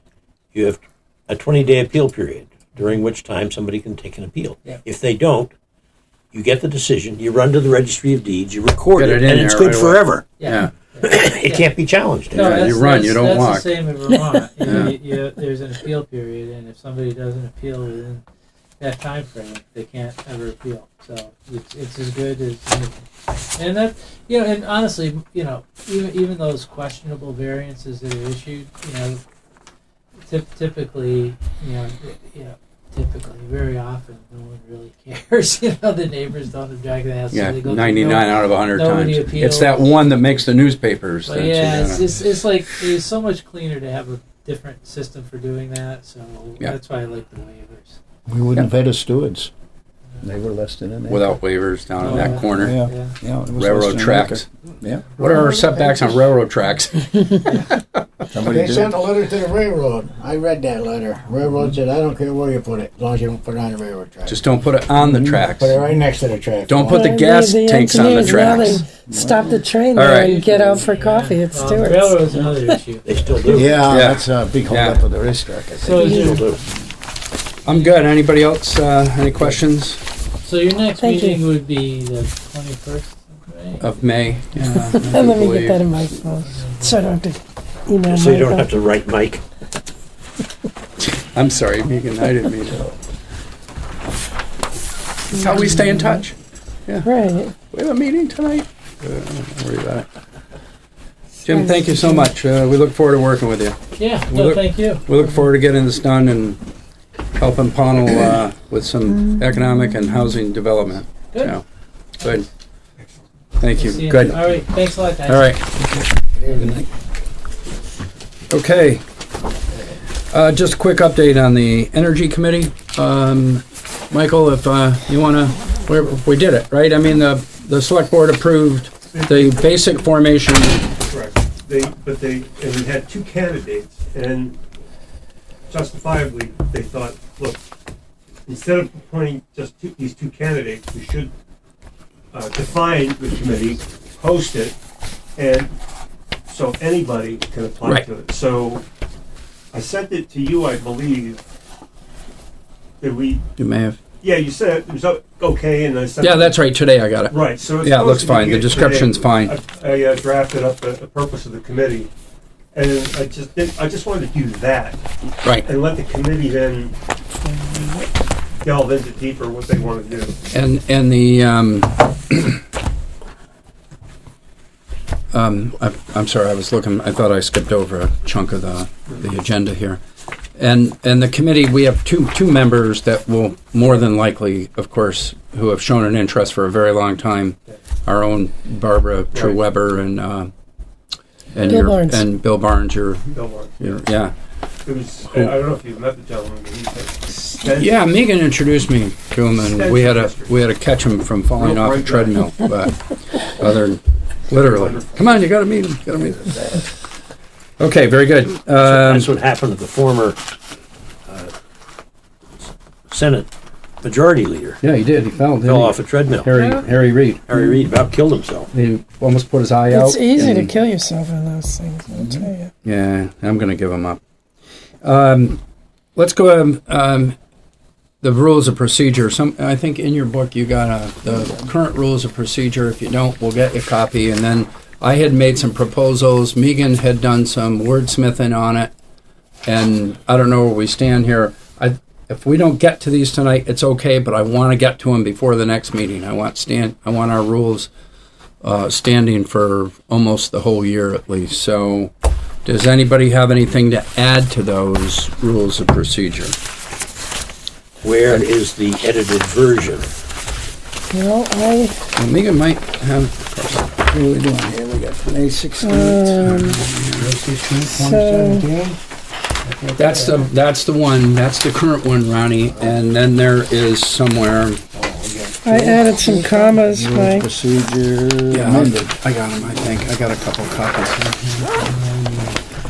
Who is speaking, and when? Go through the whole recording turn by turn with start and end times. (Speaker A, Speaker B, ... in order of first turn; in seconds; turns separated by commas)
Speaker A: 0.5-5.5, Speaker A: 6.3-10.3, Speaker B: 8.9-10.7, Speaker C: 10.4-11.7, Speaker A: 11.0-12.7, Speaker C: 12.2-18.2, Speaker B: 12.3-13.8, Speaker B: 14.6-14.9, Speaker C: 18.8-29.2, Speaker C: 30.2-40.1, Speaker B: 37.3-42.1, Speaker C: 41.2-48.0, Speaker D: 48.3-49.5, Speaker D: 50.2-51.4, Speaker B: 51.1-52.8, Speaker C: 52.0-53.2, Speaker D: 52.1-55.2, Speaker B: 53.5-54.5, Speaker B: 55.1-57.5, Speaker D: 58.3-59.0, Speaker E: 58.4-64.4, Speaker B: 64.3-65.8, Speaker D: 65.0-65.7, Speaker E: 65.4-67.1, Speaker B: 66.7-68.9, Speaker F: 66.9-72.7, Speaker D: 68.9-69.6, Speaker B: 69.9-70.4, Speaker C: 70.1-73.7, Speaker A: 73.0-73.9, Speaker E: 73.5-75.7, Speaker B: 73.9-75.0, Speaker D: 74.5-75.9, Speaker A: 75.8-76.6, Speaker C: 75.8-76.6, Speaker F: 75.9-76.4, Speaker B: 77.6-80.0, Speaker C: 77.7-78.1, Speaker C: 80.4-83.9, Speaker F: 81.0-81.4, Speaker B: 83.8-85.8, Speaker F: 84.8-88.7, Speaker C: 86.4-87.2, Speaker A: 88.1-89.4, Speaker B: 91.2-92.8, Speaker B: 95.3-96.3, Speaker F: 95.4-95.8, Speaker B: 96.9-100.0, Speaker F: 97.0-97.5, Speaker B: 101.4-106.6, Speaker F: 101.5-102.3, Speaker C: 104.0-105.4, Speaker B: 107.4-111.6, Speaker B: 112.2-112.5, Speaker B: 113.6-114.5, Speaker C: 113.7-115.6, Speaker B: 115.3-115.6, Speaker E: 116.4-116.8, Speaker C: 116.5-116.8, Speaker B: 118.5-119.0, Speaker B: 120.3-130.9, Speaker G: 129.1-129.9, Speaker G: 131.1-134.6, Speaker G: 135.7-137.6, Speaker G: 138.5-141.3, Speaker G: 142.3-144.8, Speaker G: 145.3-145.8, Speaker G: 146.5-148.8, Speaker G: 149.7-151.5, Speaker G: 153.0-153.4, Speaker B: 153.6-154.0, Speaker G: 154.2-156.6, Speaker B: 156.2-159.5, Speaker G: 157.3-162.1, Speaker G: 162.7-165.0, Speaker G: 165.5-166.9, Speaker F: 167.4-168.0, Speaker G: 168.6-170.3, Speaker B: 170.5-172.6, Speaker B: 175.3-180.0, Speaker B: 180.6-190.5, Speaker G: 189.3-189.6, Speaker B: 191.5-193.2, Speaker F: 191.6-192.2, Speaker G: 193.3-193.9, Speaker B: 193.8-194.3, Speaker G: 194.8-198.1, Speaker B: 195.3-195.6, Speaker B: 197.8-206.8, Speaker G: 199.6-200.6, Speaker G: 201.5-202.4, Speaker G: 204.5-205.4, Speaker B: 207.8-209.3, Speaker A: 208.8-210.4, Speaker A: 211.3-211.5, Speaker A: 212.6-213.5, Speaker A: 214.0-214.8, Speaker B: 214.8-217.4, Speaker A: 215.6-216.6, Speaker F: 216.5-216.8, Speaker A: 217.5-218.7, Speaker B: 218.7-220.8, Speaker F: 219.9-222.7, Speaker B: 222.3-224.2, Speaker B: 225.0-225.6, Speaker B: 226.2-227.3, Speaker B: 228.2-238.9, Speaker B: 239.7-247.9, Speaker B: 248.6-252.1, Speaker B: 252.6-256.6, Speaker A: 258.0-260.1, Speaker F: 261.1-261.9, Speaker B: 262.1-264.0, Speaker D: 264.1-266.4, Speaker F: 265.8-266.8, Speaker B: 266.3-267.3, Speaker D: 267.2-268.0, Speaker F: 267.9-268.7, Speaker E: 268.0-268.9, Speaker E: 269.7-270.3, Speaker B: 269.9-274.8, Speaker E: 274.9-275.7, Speaker F: 275.6-277.5, Speaker D: 275.7-279.2, Speaker B: 278.5-282.6